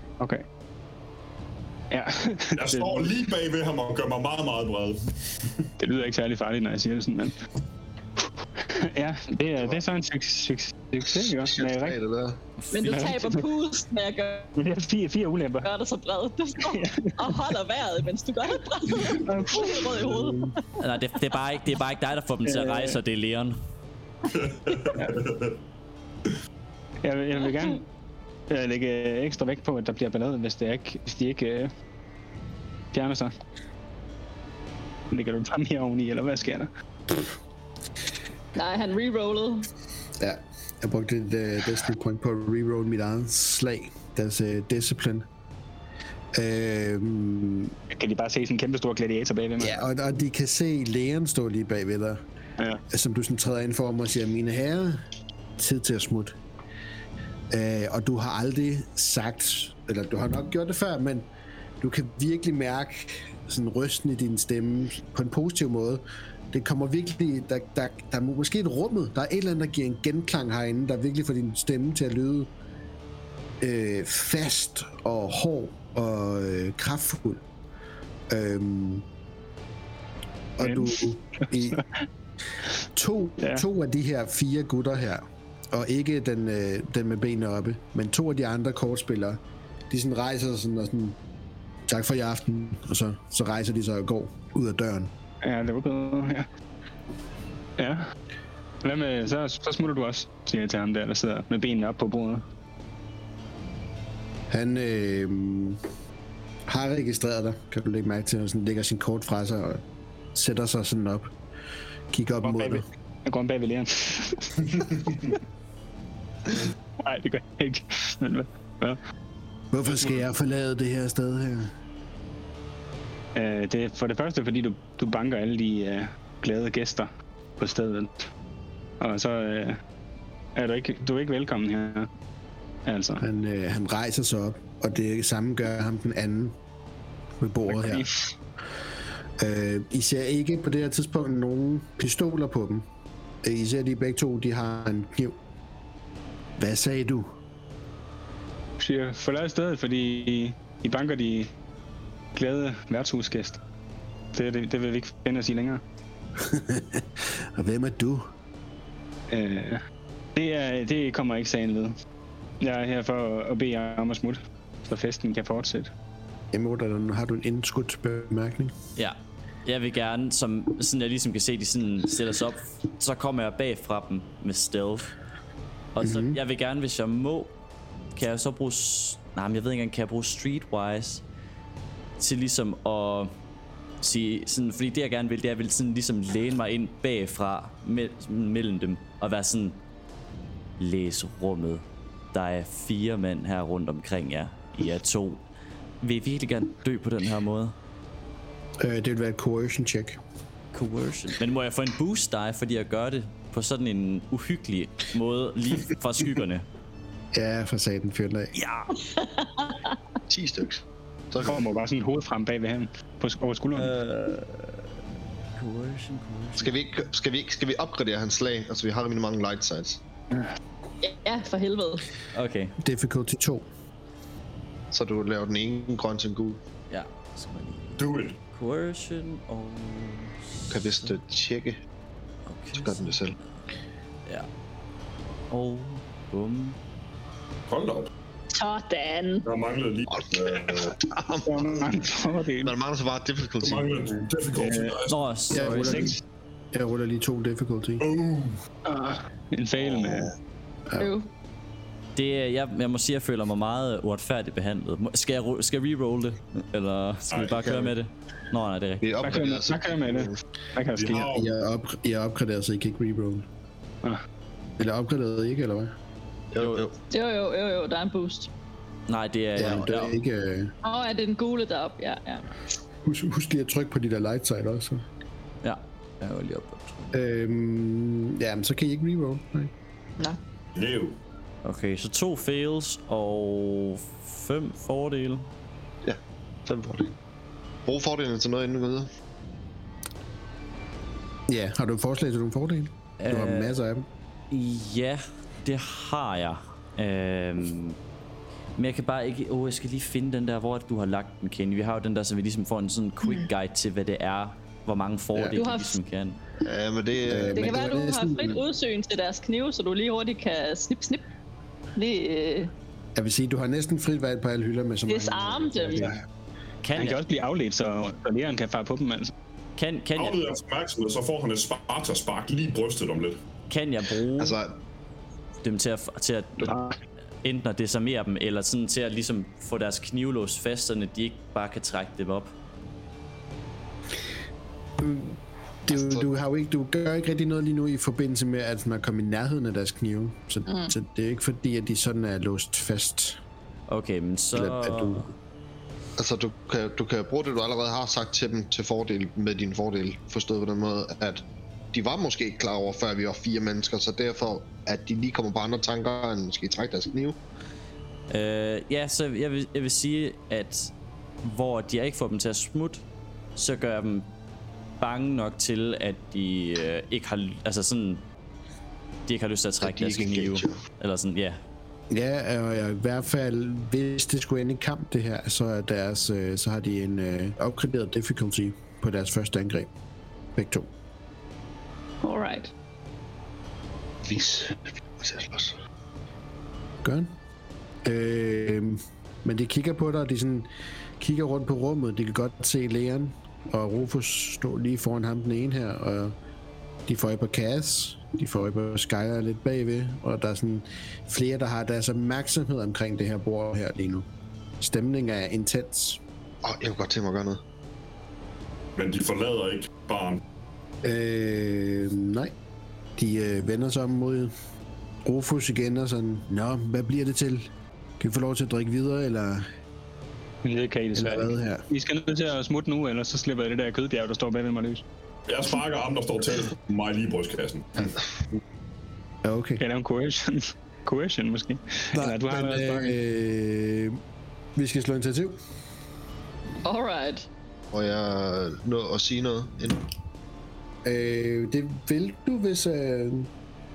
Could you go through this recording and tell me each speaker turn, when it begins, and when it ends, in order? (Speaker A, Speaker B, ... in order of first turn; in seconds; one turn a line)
Speaker A: 0.2-0.5
Speaker A: 1.9-3.1
Speaker B: 2.6-5.2
Speaker A: 5.8-7.4
Speaker A: 8.6-12.0
Speaker C: 9.6-9.8
Speaker C: 11.1-12.4
Speaker D: 12.6-13.1
Speaker E: 12.7-14.5
Speaker A: 12.8-13.3
Speaker A: 14.6-15.7
Speaker E: 15.6-20.6
Speaker A: 16.7-17.4
Speaker A: 19.0-20.1
Speaker D: 20.8-23.6
Speaker A: 22.5-23.0
Speaker B: 24.3-25.6
Speaker A: 24.9-25.2
Speaker A: 27.0-27.9
Speaker A: 28.5-31.7
Speaker A: 32.9-33.3
Speaker A: 35.1-36.7
Speaker E: 38.5-39.7
Speaker F: 40.2-45.3
Speaker F: 46.3-47.7
Speaker A: 47.9-49.8
Speaker F: 49.6-52.2
Speaker F: 52.9-55.0
Speaker F: 55.6-56.4
Speaker F: 57.5-61.3
Speaker F: 61.8-72.5
Speaker F: 73.6-77.4
Speaker F: 78.3-79.0
Speaker F: 80.6-81.8
Speaker A: 80.6-81.8
Speaker F: 83.0-91.2
Speaker F: 91.9-95.1
Speaker A: 95.4-96.5
Speaker A: 97.8-98.1
Speaker A: 98.8-102.4
Speaker F: 104.5-105.8
Speaker F: 106.7-109.8
Speaker F: 110.3-111.3
Speaker F: 112.1-112.8
Speaker A: 112.4-115.3
Speaker A: 117.0-119.0
Speaker F: 119.7-121.7
Speaker A: 123.3-128.3
Speaker A: 129.0-129.8
Speaker A: 130.6-132.1
Speaker A: 132.9-133.2
Speaker F: 133.2-136.6
Speaker F: 137.4-138.1
Speaker A: 137.7-138.2
Speaker F: 139.4-142.9
Speaker F: 143.4-145.4
Speaker F: 146.6-147.4
Speaker A: 148.8-151.5
Speaker A: 152.3-153.6
Speaker A: 154.3-155.8
Speaker F: 156.4-158.3
Speaker A: 159.3-159.8
Speaker A: 160.4-161.9
Speaker A: 162.6-165.9
Speaker F: 166.5-168.8
Speaker D: 169.0-175.1
Speaker D: 175.9-177.5
Speaker F: 176.0-176.4
Speaker D: 178.2-181.2
Speaker D: 182.2-183.3
Speaker D: 184.0-189.8
Speaker D: 190.8-195.4
Speaker D: 196.0-197.8
Speaker F: 198.8-200.2
Speaker D: 200.7-206.7
Speaker F: 207.3-208.5
Speaker D: 208.5-208.9
Speaker E: 209.0-209.9
Speaker C: 210.3-211.6
Speaker A: 211.4-213.9
Speaker D: 213.7-214.9
Speaker D: 215.6-216.8
Speaker C: 216.6-220.0
Speaker E: 221.0-222.0
Speaker D: 222.3-222.8
Speaker F: 222.8-223.7
Speaker C: 224.9-226.6
Speaker D: 226.9-231.2
Speaker B: 228.0-228.4
Speaker C: 230.7-231.8
Speaker D: 232.5-233.2
Speaker C: 232.8-233.4
Speaker D: 235.5-236.8
Speaker B: 237.7-238.1
Speaker E: 238.5-239.5
Speaker B: 239.5-240.9
Speaker C: 240.1-242.0
Speaker A: 241.4-242.7
Speaker C: 242.6-244.1
Speaker B: 243.6-245.2
Speaker A: 244.6-244.9
Speaker D: 245.1-246.2
Speaker F: 245.5-246.2
Speaker A: 245.6-246.1
Speaker F: 246.7-248.0
Speaker B: 248.0-248.6
Speaker A: 248.9-250.3
Speaker C: 250.0-250.2
Speaker E: 251.0-251.3
Speaker D: 252.2-259.4
Speaker B: 257.3-257.6
Speaker C: 259.0-260.4
Speaker A: 259.2-261.3
Speaker B: 260.9-261.5
Speaker F: 261.2-263.5
Speaker F: 264.8-265.9
Speaker C: 266.5-266.9
Speaker D: 266.6-266.9
Speaker E: 267.1-268.5
Speaker D: 269.1-270.2
Speaker F: 269.6-270.7
Speaker E: 270.8-272.4
Speaker F: 273.1-275.0
Speaker D: 275.6-277.1
Speaker F: 277.1-279.7
Speaker B: 280.8-281.2
Speaker D: 281.6-285.5
Speaker C: 286.1-287.1
Speaker C: 287.9-289.1
Speaker F: 291.5-294.1
Speaker D: 293.2-293.8
Speaker D: 294.5-298.0
Speaker D: 298.8-306.4
Speaker E: 305.5-306.0
Speaker C: 306.6-307.8
Speaker F: 307.3-308.6
Speaker E: 307.5-311.3
Speaker E: 312.0-312.7
Speaker F: 313.2-316.1
Speaker E: 315.1-316.1
Speaker D: 316.8-317.2
Speaker A: 317.0-319.3
Speaker D: 319.8-320.4
Speaker B: 320.2-323.4
Speaker D: 323.7-324.6
Speaker C: 324.4-324.8
Speaker D: 325.6-326.8
Speaker C: 326.6-326.9
Speaker D: 327.4-332.5
Speaker F: 335.0-343.4
Speaker C: 335.9-336.3
Speaker E: 340.7-340.9
Speaker D: 343.9-345.3
Speaker F: 344.5-345.3
Speaker C: 346.2-357.4
Speaker D: 358.3-363.0
Speaker D: 363.6-364.3
Speaker D: 365.0-368.2
Speaker D: 369.3-371.6
Speaker C: 369.8-370.8
Speaker F: 372.1-379.9
Speaker F: 380.6-380.9
Speaker E: 382.2-382.7
Speaker C: 384.2-385.8
Speaker F: 387.0-387.4
Speaker F: 388.0-390.7
Speaker F: 391.2-396.4
Speaker F: 397.1-404.3
Speaker F: 404.8-406.2
Speaker C: 406.6-407.6
Speaker B: 409.0-410.4
Speaker F: 411.0-412.6
Speaker F: 413.2-414.5
Speaker F: 415.2-419.7
Speaker A: 420.6-425.0
Speaker F: 421.1-421.9
Speaker B: 425.5-428.1
Speaker F: 429.4-429.8
Speaker A: 429.8-433.1
Speaker F: 432.1-434.2
Speaker F: 434.8-435.6
Speaker E: 436.8-437.5
Speaker C: 437.9-440.1
Speaker F: 441.1-443.5